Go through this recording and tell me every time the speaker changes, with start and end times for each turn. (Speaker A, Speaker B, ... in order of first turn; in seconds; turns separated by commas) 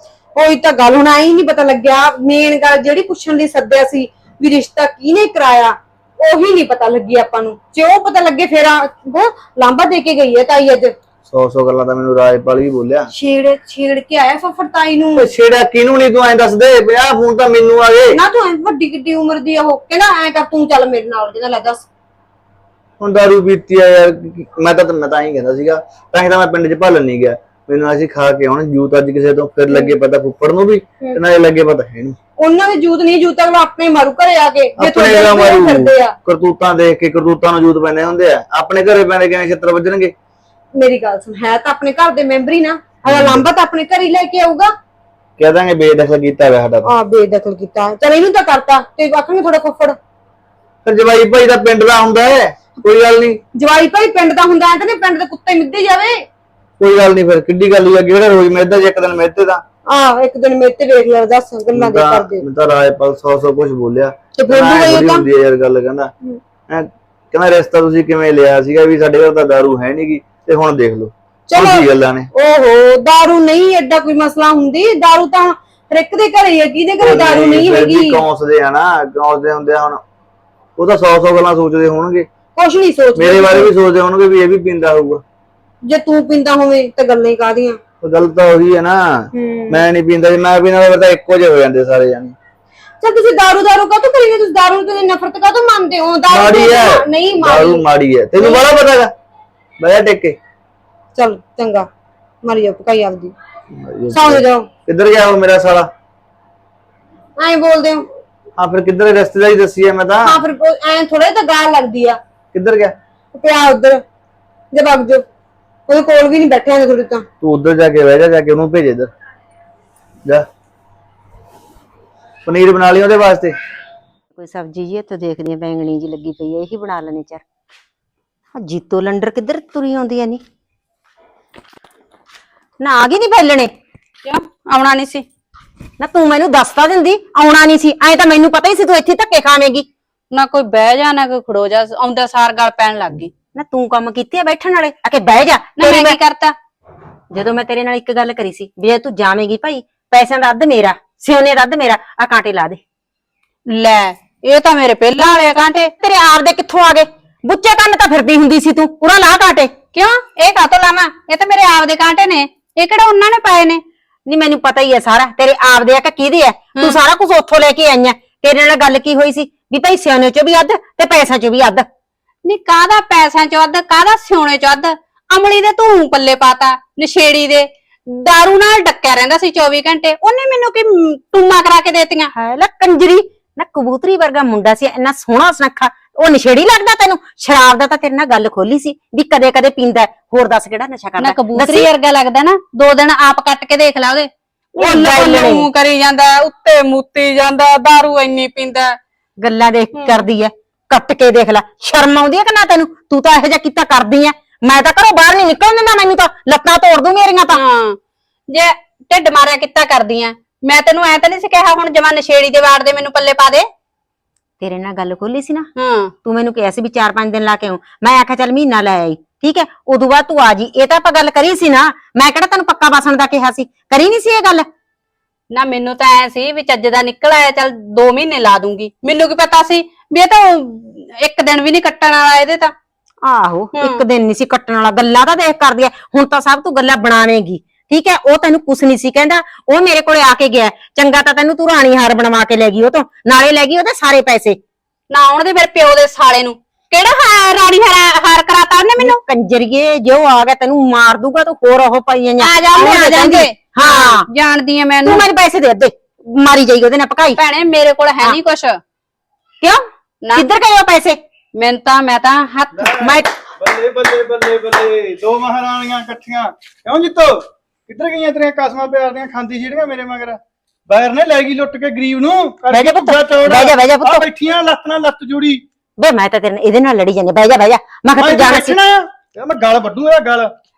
Speaker A: 0.3-10.9, Speaker B: 11.3-13.1, Speaker A: 13.1-15.3, Speaker B: 15.2-18.2, Speaker A: 18.1-21.9, Speaker B: 23.0-32.2, Speaker A: 32.4-36.1, Speaker B: 34.8-40.1, Speaker A: 40.8-44.7, Speaker B: 43.0-43.5, Speaker B: 45.4-46.9, Speaker A: 46.9-50.0, Speaker B: 50.9-53.4, Speaker A: 53.5-56.2, Speaker B: 56.8-59.6, Speaker A: 59.9-62.4, Speaker B: 61.7-66.1, Speaker A: 64.4-65.3, Speaker B: 66.7-72.3, Speaker A: 71.5-78.2, Speaker B: 77.0-80.0, Speaker B: 80.8-82.3, Speaker A: 82.5-83.7, Speaker B: 83.2-85.2, Speaker A: 85.9-87.8, Speaker B: 88.0-92.4, Speaker A: 89.3-89.8, Speaker A: 93.0-97.8, Speaker B: 96.3-99.1, Speaker A: 98.4-98.6, Speaker B: 99.8-100.4, Speaker A: 101.2-101.9, Speaker A: 102.4-103.3, Speaker B: 103.7-105.9, Speaker A: 104.1-104.7, Speaker A: 107.4-108.1, Speaker B: 108.6-110.5, Speaker A: 110.2-112.2, Speaker B: 112.5-113.0, Speaker A: 113.3-114.0, Speaker A: 114.7-115.2, Speaker A: 115.9-117.3, Speaker B: 117.4-119.1, Speaker B: 122.5-123.5, Speaker C: 124.3-127.4, Speaker C: 128.6-130.4, Speaker C: 132.8-133.7, Speaker D: 134.2-135.3, Speaker C: 136.0-139.9, Speaker D: 140.3-143.3, Speaker C: 143.6-146.2, Speaker D: 145.8-146.6, Speaker C: 147.3-152.8, Speaker D: 153.7-155.9, Speaker C: 156.0-159.8, Speaker D: 159.9-163.8, Speaker C: 164.3-171.9, Speaker D: 172.4-182.3, Speaker C: 182.3-191.9, Speaker D: 191.2-199.0, Speaker C: 194.8-195.7, Speaker C: 199.4-207.6, Speaker D: 199.9-200.2, Speaker D: 207.5-208.0, Speaker D: 208.5-213.7, Speaker C: 214.6-215.7, Speaker D: 215.8-216.1, Speaker C: 216.2-224.7, Speaker D: 225.5-232.7, Speaker C: 233.2-244.6, Speaker D: 233.8-234.0, Speaker D: 245.1-249.2, Speaker C: 249.0-254.3, Speaker D: 252.4-255.2, Speaker C: 255.0-257.4, Speaker D: 257.4-258.8, Speaker C: 259.6-261.2, Speaker D: 261.6-262.9, Speaker E: 262.7-275.6, Speaker C: 263.0-263.3, Speaker C: 272.7-274.2, Speaker C: 276.0-278.8, Speaker E: 278.2-280.5